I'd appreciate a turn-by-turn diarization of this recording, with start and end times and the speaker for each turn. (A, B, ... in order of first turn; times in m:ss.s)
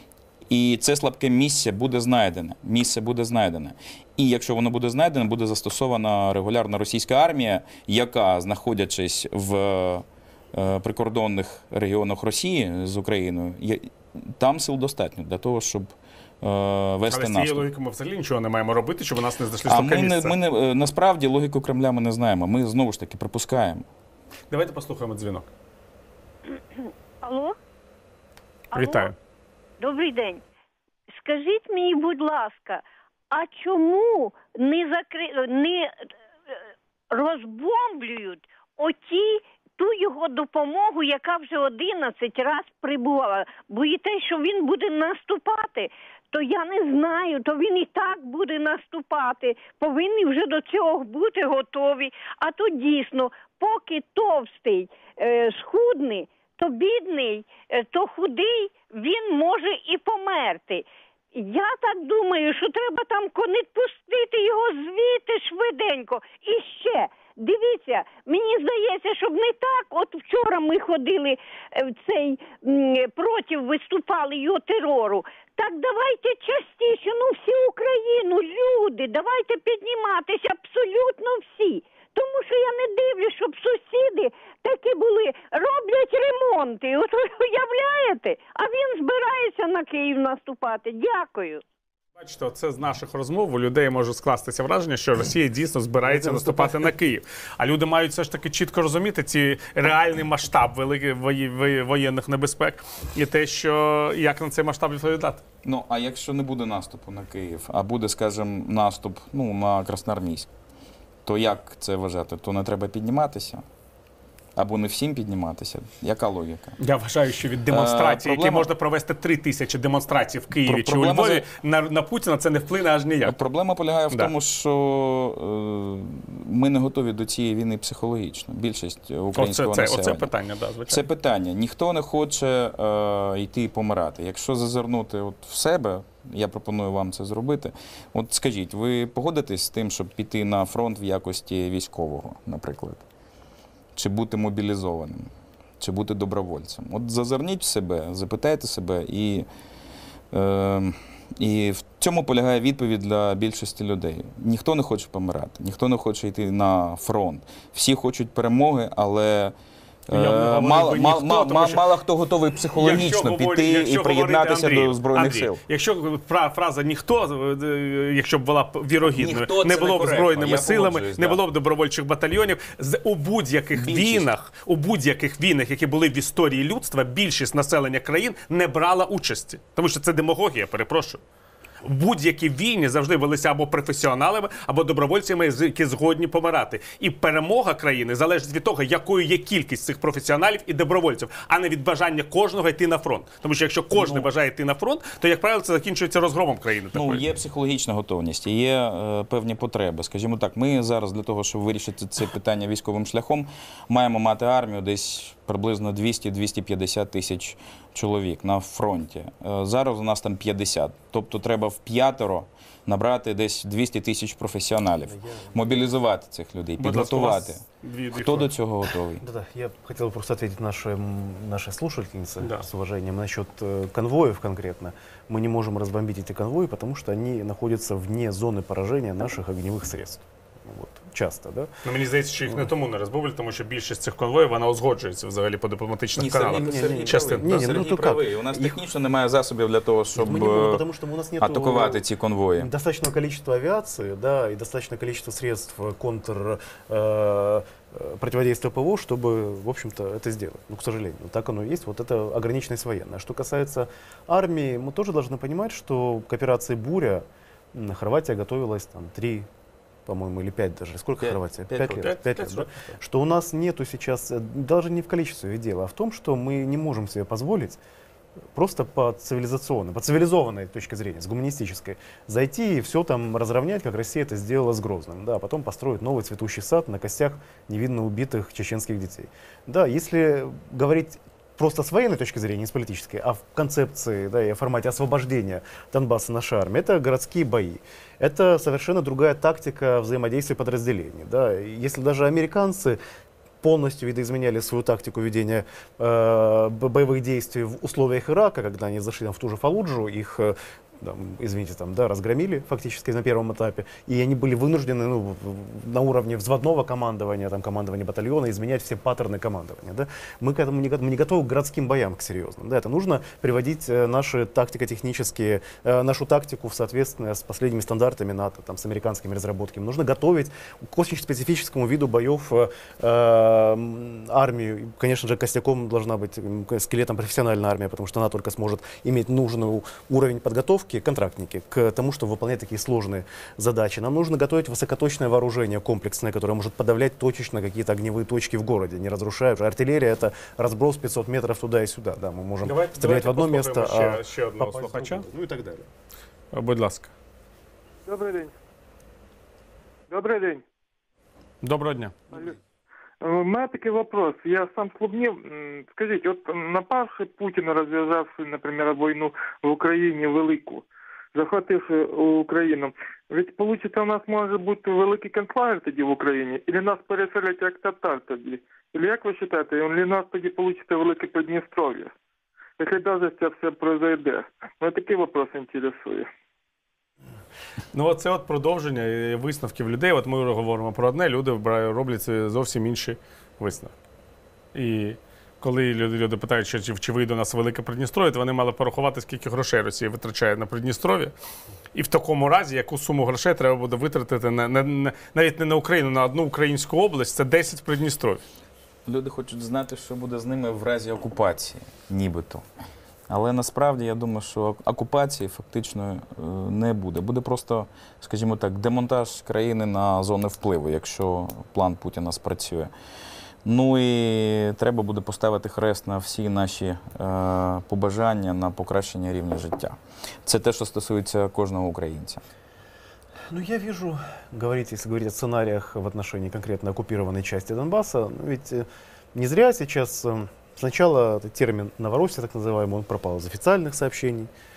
0:00.5-0:17.7 A
0:17.1-0:20.4 B
0:19.7-0:23.8 A
0:24.5-0:25.5 B
0:26.5-0:27.6 C
0:28.7-0:29.1 C
0:28.7-0:29.1 B
0:29.8-0:30.4 C
0:31.1-0:35.9 C
0:37.1-1:31.6 C
1:32.2-1:45.4 B
1:36.0-1:36.9 D
1:45.6-1:50.5 A
1:51.2-1:53.6 A
1:54.6-1:56.8 A
1:56.8-2:03.4 B
1:57.7-1:58.7 A
2:00.6-2:01.5 A
2:03.2-2:10.3 A
2:09.4-2:11.0 B
2:10.9-2:23.0 A
2:24.0-2:29.5 A
2:30.3-2:39.5 A
2:40.1-2:45.6 A
2:40.1-2:41.8 B
2:42.7-3:01.2 B
2:49.0-2:51.4 A
2:53.7-2:54.3 A
3:01.8-3:17.2 B
3:13.9-3:14.3 A
3:16.9-3:39.2 A
3:35.0-3:35.9 D
3:36.8-3:38.5 B
3:39.2-3:51.7 D
3:42.4-3:42.7 B
3:51.8-3:57.5 B
3:56.2-4:00.8 A
3:56.5-3:58.8 D
4:00.2-4:02.0 D
4:01.4-4:02.7 A
4:02.6-4:19.5 D
4:20.1-4:27.8 D
4:21.8-4:22.9 B
4:28.5-4:53.0 D
4:53.6-5:45.9 D
5:42.6-5:45.2 B
5:46.5-5:47.1 B
5:48.1-5:48.5 E
5:50.1-5:50.6 E
5:51.6-5:52.2 B
5:52.3-5:52.6 E
5:53.2-6:12.1 E
6:12.8-6:16.3 E
6:17.9-6:23.9 B
6:24.7-6:31.3 B
6:31.9-6:38.4 B
6:39.1-6:42.6 A
6:43.3-6:52.9 A
6:53.6-7:02.4 A
7:03.5-7:14.5 D